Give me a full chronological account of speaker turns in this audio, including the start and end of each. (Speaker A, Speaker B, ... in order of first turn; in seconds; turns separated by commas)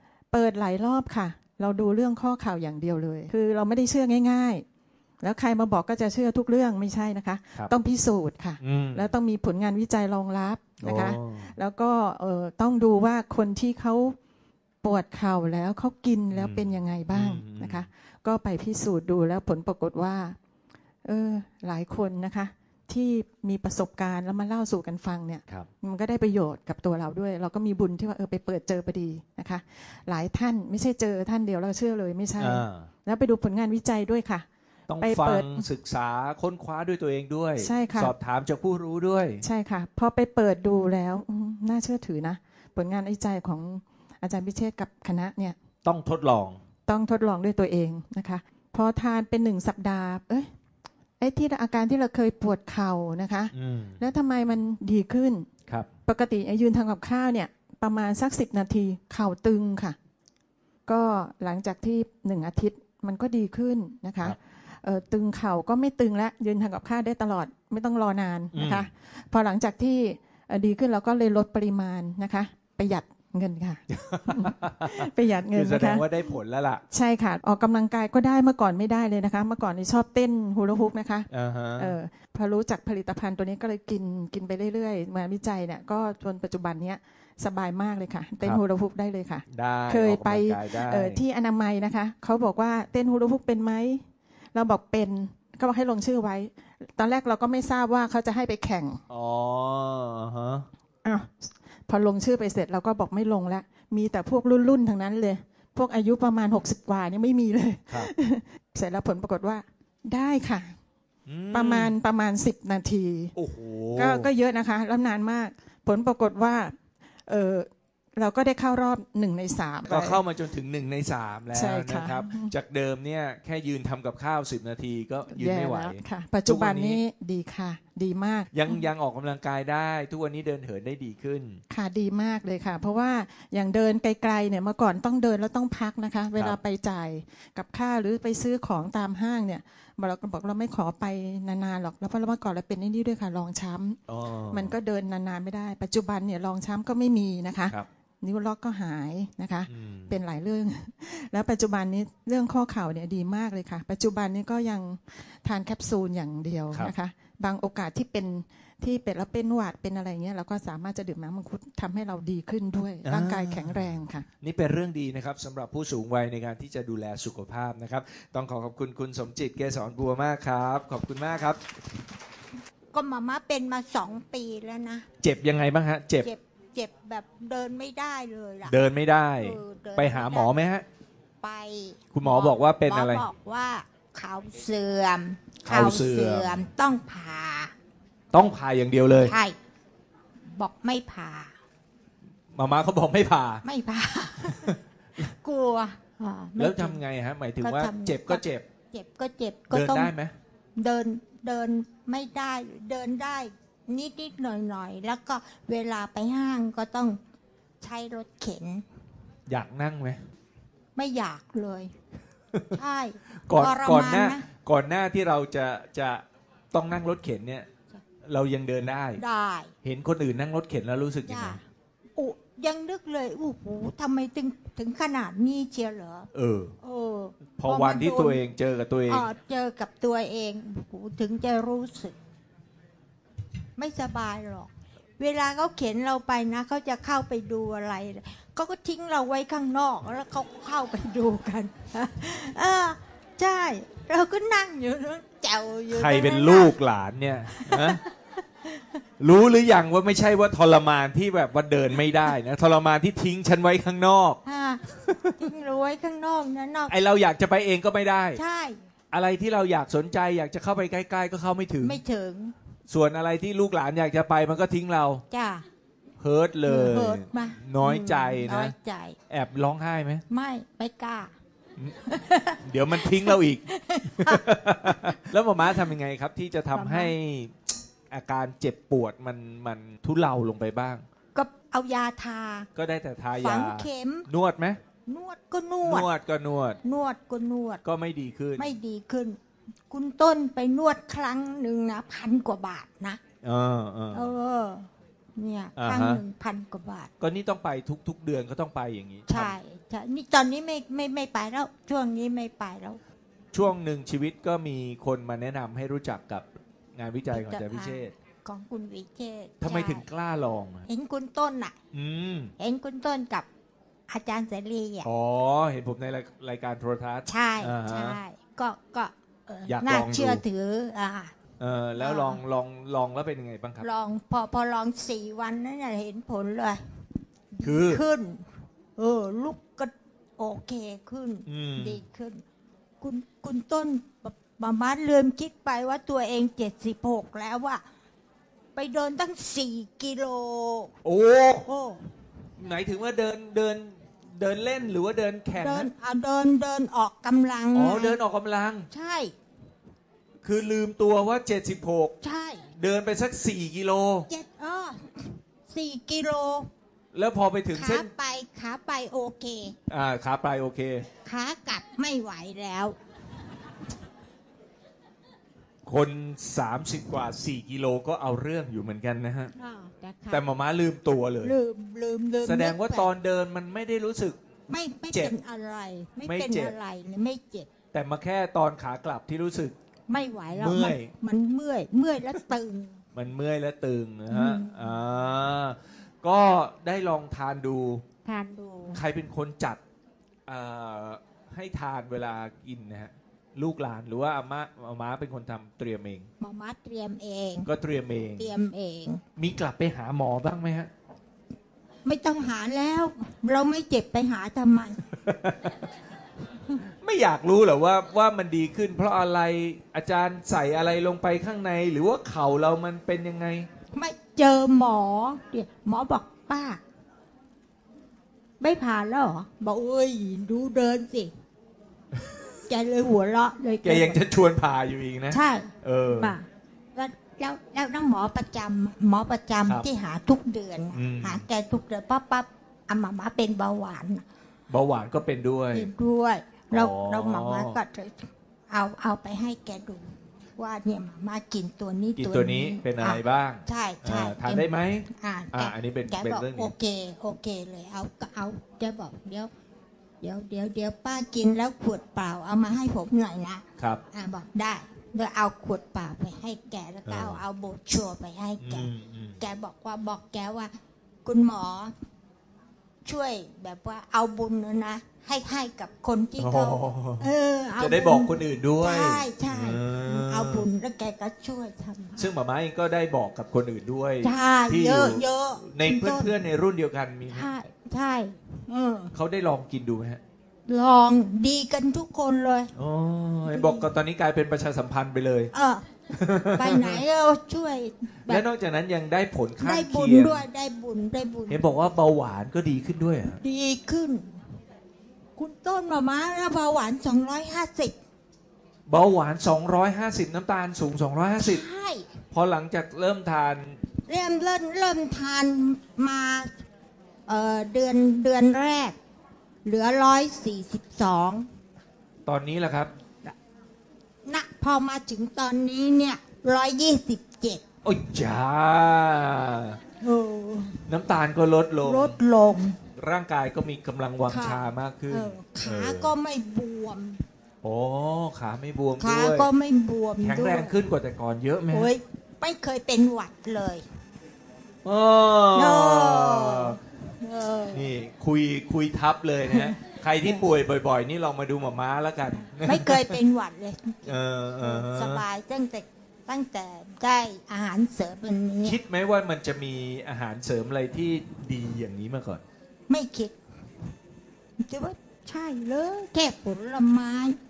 Speaker A: 0.3-4.7, Speaker A: 5.2-14.2, Speaker B: 8.6-9.1, Speaker B: 10.8-11.6, Speaker A: 14.8-20.4, Speaker B: 16.3-17.9, Speaker A: 21.0-34.5, Speaker B: 32.4-32.9, Speaker B: 34.9-39.4, Speaker A: 35.0-35.7, Speaker A: 37.6-38.1, Speaker A: 39.4-45.6, Speaker B: 45.8-46.6, Speaker A: 46.9-50.5, Speaker A: 51.2-55.5, Speaker B: 53.5-54.0, Speaker A: 56.1-60.0, Speaker A: 60.9-76.1, Speaker B: 68.5-68.9, Speaker B: 73.9-76.8, Speaker A: 76.9-99.0, Speaker B: 81.3-82.0, Speaker B: 89.5-91.2, Speaker B: 99.1-100.7, Speaker A: 101.0-110.8, Speaker B: 111.3-111.9, Speaker A: 111.5-113.3, Speaker B: 113.3-114.3, Speaker A: 114.0-116.8, Speaker A: 117.3-120.2, Speaker B: 119.9-127.0, Speaker A: 121.5-122.5, Speaker A: 125.3-128.8, Speaker B: 128.5-131.6, Speaker A: 131.7-144.0, Speaker B: 144.1-144.8, Speaker A: 144.5-164.3, Speaker B: 149.7-150.2, Speaker B: 163.0-171.6, Speaker C: 172.9-175.1, Speaker B: 175.2-176.3, Speaker C: 176.2-178.7, Speaker B: 178.7-180.8, Speaker C: 179.4-180.5, Speaker C: 181.4-187.7, Speaker B: 182.1-183.3, Speaker B: 185.6-186.7, Speaker B: 188.3-189.4, Speaker C: 189.2-189.6, Speaker C: 190.5-191.5, Speaker B: 192.5-193.6, Speaker C: 193.6-197.0, Speaker B: 194.5-194.8, Speaker B: 196.6-198.7, Speaker C: 197.6-200.1, Speaker B: 199.7-200.3, Speaker C: 200.8-207.2, Speaker C: 207.8-208.8, Speaker B: 209.5-210.2, Speaker C: 211.0-211.9, Speaker B: 212.5-212.8, Speaker C: 212.7-214.5, Speaker B: 213.5-217.7, Speaker B: 218.3-219.2, Speaker C: 219.2-219.7, Speaker B: 219.8-221.6, Speaker C: 221.3-221.6, Speaker C: 222.2-226.3, Speaker B: 226.3-226.8, Speaker C: 226.8-228.4, Speaker B: 227.6-229.3, Speaker C: 229.1-232.2, Speaker C: 233.8-246.8, Speaker B: 245.9-248.0, Speaker C: 247.5-248.1, Speaker B: 249.2-254.4, Speaker C: 254.4-254.8, Speaker B: 255.0-255.4, Speaker C: 255.4-256.9, Speaker B: 256.9-258.4, Speaker C: 258.4-258.8, Speaker B: 259.1-262.0, Speaker C: 261.8-262.5, Speaker B: 262.9-265.2, Speaker C: 265.3-265.6, Speaker B: 266.2-268.7, Speaker C: 266.7-269.2, Speaker B: 269.3-270.2, Speaker C: 270.3-271.3, Speaker C: 272.1-275.1, Speaker B: 272.6-281.0, Speaker C: 276.7-277.1, Speaker C: 281.4-282.7, Speaker B: 282.8-284.8, Speaker C: 283.4-284.3, Speaker C: 285.1-286.1, Speaker B: 285.8-286.8, Speaker C: 286.8-287.8, Speaker B: 287.8-288.8, Speaker C: 288.6-289.4, Speaker C: 289.9-293.2, Speaker B: 293.4-294.3, Speaker C: 294.1-297.1, Speaker B: 295.8-296.2, Speaker B: 297.2-299.6, Speaker C: 299.3-303.0, Speaker B: 303.5-308.1, Speaker C: 307.3-310.1, Speaker B: 309.6-310.9, Speaker C: 310.9-311.8, Speaker B: 311.9-312.5, Speaker C: 312.6-313.5, Speaker C: 314.1-315.1, Speaker B: 315.0-318.2, Speaker C: 317.3-321.3, Speaker B: 319.7-320.4, Speaker B: 321.6-323.9, Speaker C: 322.0-322.4, Speaker C: 323.8-326.8, Speaker C: 327.5-328.4, Speaker B: 327.6-328.0, Speaker C: 329.0-332.4, Speaker B: 331.5-332.0, Speaker C: 333.0-337.8, Speaker C: 338.8-340.9, Speaker B: 341.0-341.7, Speaker C: 341.7-342.0, Speaker B: 342.6-345.9, Speaker C: 345.6-348.2, Speaker B: 347.7-348.9, Speaker C: 348.9-349.3, Speaker B: 350.4-352.1, Speaker C: 352.2-352.7, Speaker B: 352.8-354.3, Speaker C: 354.3-356.7, Speaker B: 357.1-358.1, Speaker C: 357.7-359.8, Speaker B: 359.9-361.1, Speaker C: 361.2-363.0, Speaker B: 365.9-369.5, Speaker C: 369.6-370.4, Speaker B: 370.3-371.6, Speaker C: 371.4-373.1, Speaker B: 372.4-374.4, Speaker C: 374.7-377.7, Speaker B: 376.2-376.8, Speaker B: 377.9-379.8, Speaker C: 380.1-383.0, Speaker B: 380.5-381.1, Speaker B: 383.1-388.1, Speaker C: 384.3-385.0, Speaker C: 388.2-389.0, Speaker B: 388.9-389.8, Speaker B: 390.5-396.3, Speaker C: 396.4-397.7, Speaker B: 397.6-398.5, Speaker C: 398.4-399.2, Speaker B: 399.4-400.9, Speaker C: 402.1-405.0, Speaker B: 405.2-405.8, Speaker B: 406.8-413.7, Speaker C: 413.9-416.8, Speaker C: 418.6-421.3, Speaker C: 422.7-424.2, Speaker B: 423.8-426.4, Speaker C: 425.3-434.2, Speaker B: 430.9-431.5, Speaker B: 434.7-435.9, Speaker C: 435.7-449.5, Speaker B: 436.7-437.8, Speaker B: 442.2-446.7, Speaker C: 450.2-460.7, Speaker B: 457.1-457.4, Speaker B: 458.6-459.4, Speaker C: 461.2-461.9, Speaker C: 463.1-472.3, Speaker B: 466.4-470.7, Speaker B: 472.2-477.5, Speaker C: 474.2-476.3, Speaker C: 477.3-479.1, Speaker B: 479.1-480.2, Speaker C: 480.7-482.7, Speaker B: 482.8-485.5, Speaker C: 483.5-483.9, Speaker C: 485.5-485.9, Speaker B: 486.1-487.0, Speaker C: 486.6-488.4, Speaker B: 488.3-490.4, Speaker C: 489.6-491.6, Speaker B: 491.5-493.4, Speaker C: 493.4-494.3, Speaker C: 495.4-498.0, Speaker B: 498.9-501.6, Speaker C: 501.4-502.1, Speaker B: 502.3-503.8, Speaker C: 504.1-506.5, Speaker C: 507.3-509.0, Speaker C: 509.6-511.5, Speaker B: 512.3-512.9, Speaker C: 514.3-517.6, Speaker B: 517.8-519.8, Speaker C: 520.0-520.9, Speaker B: 520.9-522.2, Speaker C: 521.8-522.8, Speaker B: 523.0-526.1, Speaker C: 524.3-527.2, Speaker B: 527.6-529.5, Speaker C: 529.0-530.8, Speaker B: 530.2-531.9, Speaker C: 531.7-533.8, Speaker B: 534.8-536.8, Speaker C: 535.5-537.8, Speaker B: 537.7-543.2, Speaker C: 539.5-540.4, Speaker C: 542.6-548.8, Speaker B: 544.1-545.2, Speaker B: 548.6-552.4, Speaker C: 552.9-553.4, Speaker C: 554.6-557.4